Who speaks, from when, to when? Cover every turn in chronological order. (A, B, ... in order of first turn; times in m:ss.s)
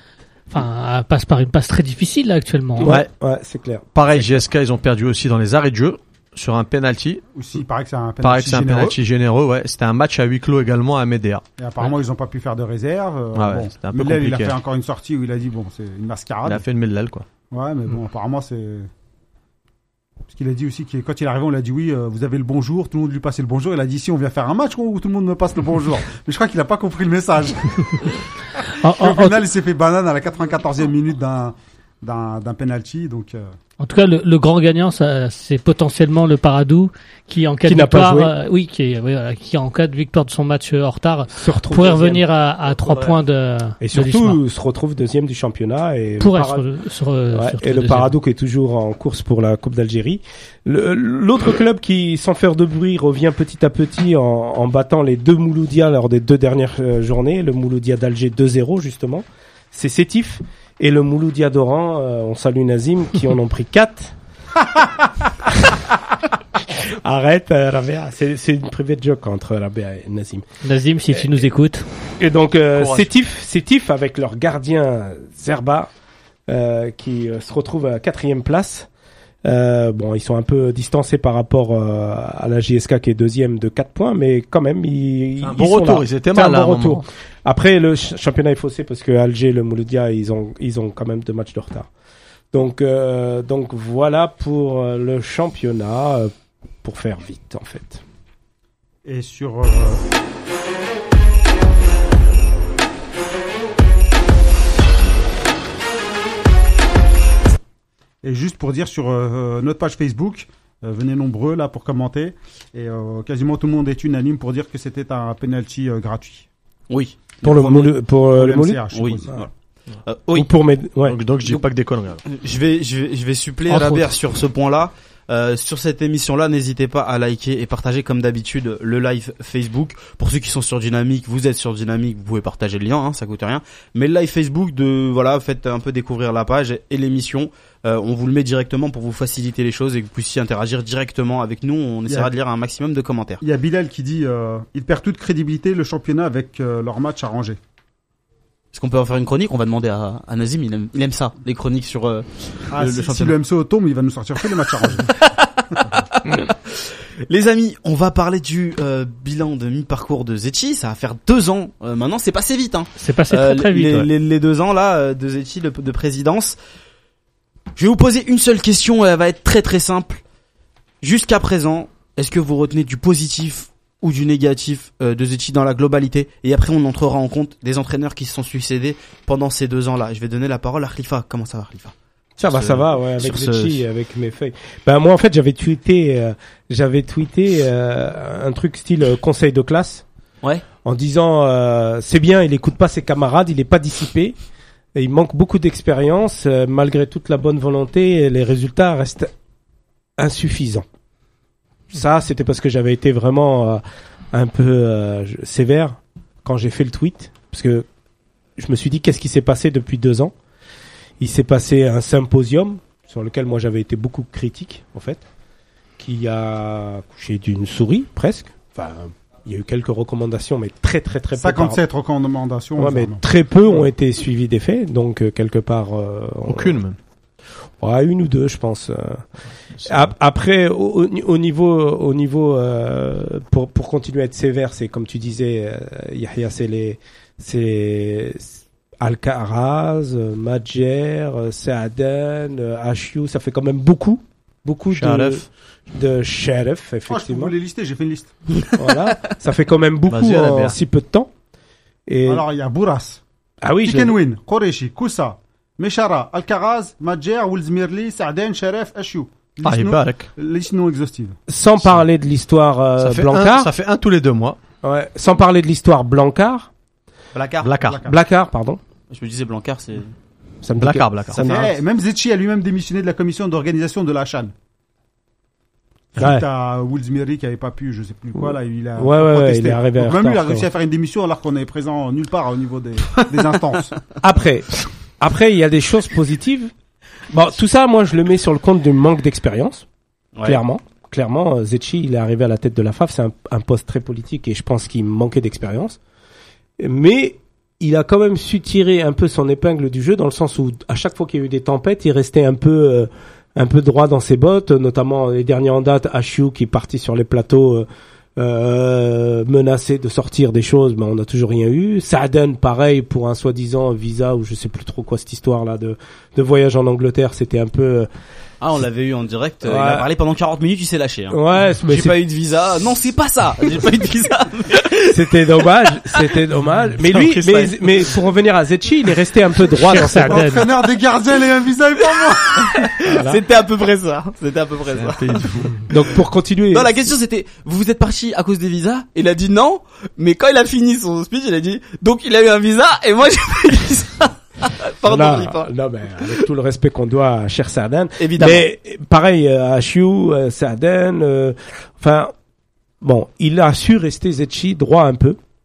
0:00.5-0:03.0 A
0:02.8-0:03.8 B
0:02.8-0:03.1 C
0:03.9-0:07.2 C
0:07.3-0:08.9 D
0:08.2-0:11.4 C
0:11.6-0:16.6 D
0:13.3-0:14.6 C
0:16.4-0:17.2 C
0:17.5-0:18.9 D
0:20.3-0:28.2 D
0:28.8-0:29.4 A
0:28.8-0:33.4 D
0:33.8-0:44.4 A
0:37.6-0:38.3 B
0:41.4-0:42.2 B
0:43.8-0:46.6 B
0:46.2-0:48.1 A
0:47.3-1:04.1 B
1:05.5-1:05.8 B
1:06.8-1:10.4 B
1:10.6-1:11.9 A
1:11.1-1:11.4 B
1:12.2-1:15.9 B
1:12.8-1:13.1 C
1:16.5-1:18.9 B
1:19.4-1:31.9 B
1:25.4-1:27.0 C
1:32.5-1:36.3 B
1:36.8-1:38.0 B
1:39.0-1:40.0 D
1:48.2-1:56.4 D
1:56.9-1:57.2 E
1:57.4-1:59.5 D
1:57.4-1:59.4 B
1:58.9-1:59.2 E
2:00.1-2:00.5 E
2:00.3-2:01.2 B
2:01.0-2:02.2 C
2:02.2-2:23.4 E
2:03.7-2:04.1 A
2:23.4-2:27.6 D
2:28.7-2:33.4 E
2:32.7-2:35.1 D
2:35.1-2:46.6 E
2:43.0-2:44.1 A
2:47.8-2:50.2 E
2:51.0-3:03.8 E
3:02.4-3:10.0 B
3:10.8-3:14.4 B
3:14.9-3:19.3 B
3:20.2-3:20.8 B
3:21.9-3:27.9 B
3:28.6-3:30.3 B
3:31.2-3:35.2 B
3:36.0-3:41.8 B
3:41.4-3:43.8 D
3:42.8-3:46.8 B
3:46.4-3:47.0 C
3:47.8-3:49.2 B
3:49.8-3:50.1 C
3:49.8-4:07.5 B
4:04.9-4:05.4 C
4:07.1-4:08.3 D
4:08.8-4:11.3 B
4:10.1-4:10.8 C
4:12.1-4:12.4 B
4:12.3-4:13.2 D
4:13.6-4:14.2 B
4:13.9-4:21.4 D
4:19.6-4:20.3 C
4:21.5-4:23.7 B
4:23.0-4:24.6 C
4:24.8-4:26.7 B
4:27.4-4:27.7 E
4:27.4-4:28.1 D
4:27.6-4:28.1 C
4:28.0-4:28.8 B
4:29.1-4:30.1 E
4:30.6-4:31.7 B
4:30.8-4:31.6 C
4:31.3-4:31.7 E
4:31.5-4:34.5 D
4:36.1-4:44.0 D
4:36.2-4:36.4 B
4:38.4-4:40.7 B
4:44.2-4:46.7 B
4:47.3-4:49.9 B
4:50.4-4:56.0 B
4:56.8-5:18.1 B
5:18.6-5:25.5 E
5:19.6-5:20.0 B
5:21.3-5:22.2 B
5:25.1-5:30.6 B
5:27.0-5:28.1 E
5:29.8-5:30.7 A
5:30.2-5:32.9 D
5:32.0-5:35.5 E
5:35.0-5:35.7 C
5:35.9-5:36.9 B
5:36.7-5:45.7 E
5:45.0-5:52.3 B
5:48.2-5:48.6 E
5:53.0-5:55.4 B